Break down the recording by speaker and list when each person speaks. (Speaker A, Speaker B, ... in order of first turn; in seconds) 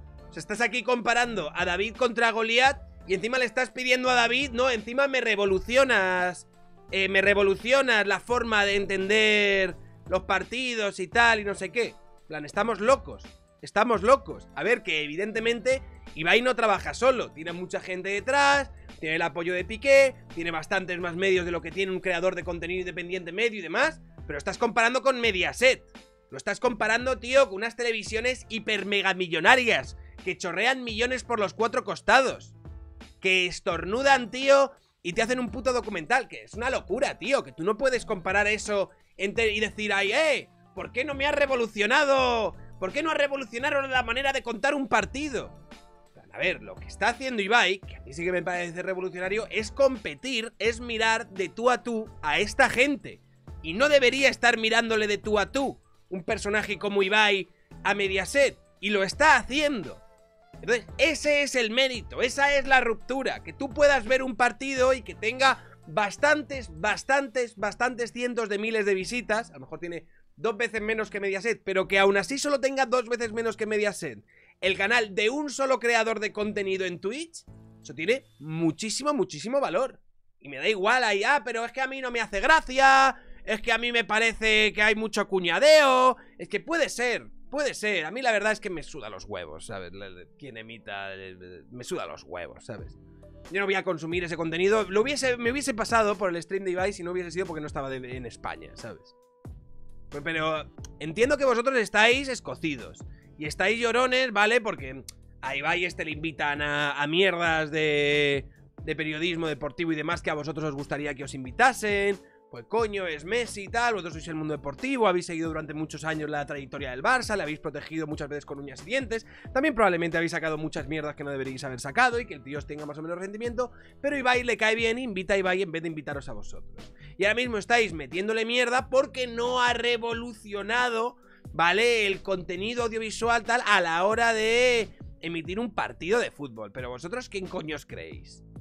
Speaker A: 0.3-32.5, 33.2-45.5, 46.1-60.0, 60.6-93.0, 93.5-99.2, 100.1-138.4